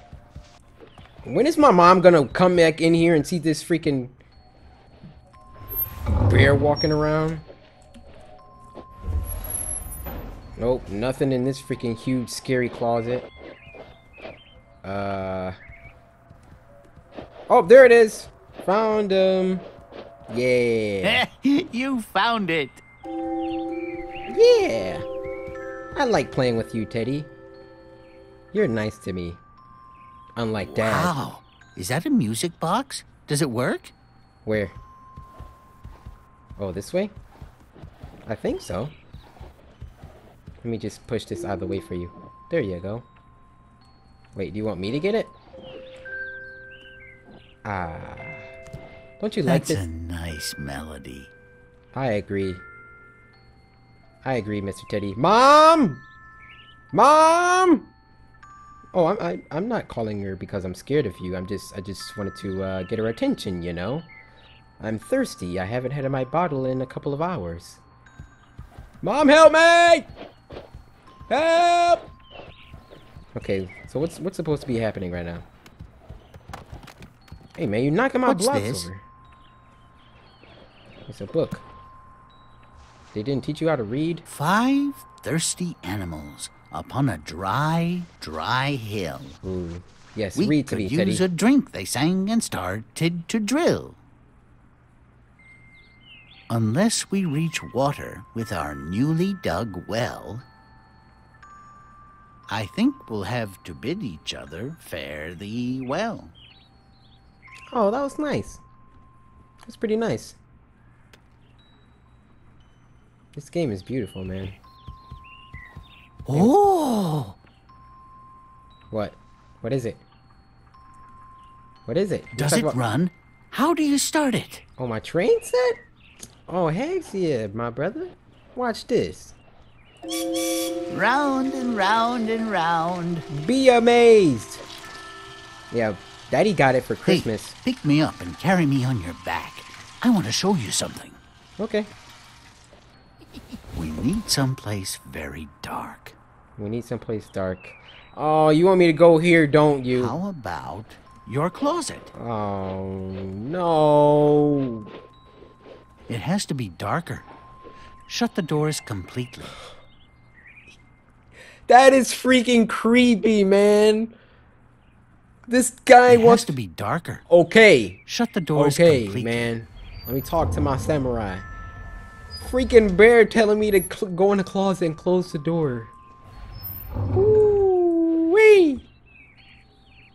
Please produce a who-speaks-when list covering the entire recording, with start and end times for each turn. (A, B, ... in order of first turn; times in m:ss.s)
0:01.2-0:04.1 A
0:06.1-0:07.4 A
0:10.6-0:13.3 A
0:14.8-0:15.6 A
0:17.5-0:19.7 A
0:20.3-0:21.2 A
0:21.0-0:22.8 B
0:24.3-0:25.0 A
0:26.0-0:27.3 A
0:28.5-0:29.4 A
0:30.4-0:31.1 A
0:30.6-0:33.9 B
0:34.4-0:34.8 A
0:36.6-0:37.1 A
0:38.3-0:38.9 A
0:40.6-0:43.1 A
0:44.4-0:45.3 A
0:47.6-0:48.5 A
0:49.2-0:49.8 A
0:49.4-0:51.3 B
0:51.9-0:52.6 A
0:54.2-0:56.0 A
0:56.9-0:57.9 A
0:58.9-1:04.1 A
1:04.8-1:07.8 A
1:09.0-1:10.1 A
1:11.3-1:12.1 A
1:13.4-1:15.4 A
1:17.6-1:19.0 A
1:18.2-1:18.9 B
1:21.1-1:21.6 A
1:23.1-1:24.2 A
1:24.3-1:29.4 B
1:29.4-1:31.2 A
1:30.4-1:34.0 B
1:36.5-1:40.4 B
1:42.5-1:46.3 B
1:47.7-1:48.6 A
1:49.6-1:50.4 A
1:53.4-1:54.6 A
1:56.3-1:57.4 B
1:58.9-2:00.0 A
2:01.9-2:02.8 A
2:02.3-2:04.6 B
2:04.8-2:05.8 A
2:06.5-2:09.4 A
2:10.9-2:13.3 B
2:13.3-2:14.6 A
2:15.7-2:17.6 A
2:17.0-2:21.2 B
2:21.6-2:21.9 A
2:23.7-2:26.2 B
2:26.6-2:30.2 A
2:29.9-2:32.1 B
2:32.2-2:34.8 A
2:36.1-2:37.3 B
2:38.1-2:39.5 B
2:41.7-2:44.1 A
2:45.5-2:46.6 A
2:46.1-2:47.2 B
2:47.3-2:48.0 A
2:48.1-2:49.5 B
2:48.6-2:51.4 A
2:52.4-2:55.9 A
2:57.1-2:58.8 A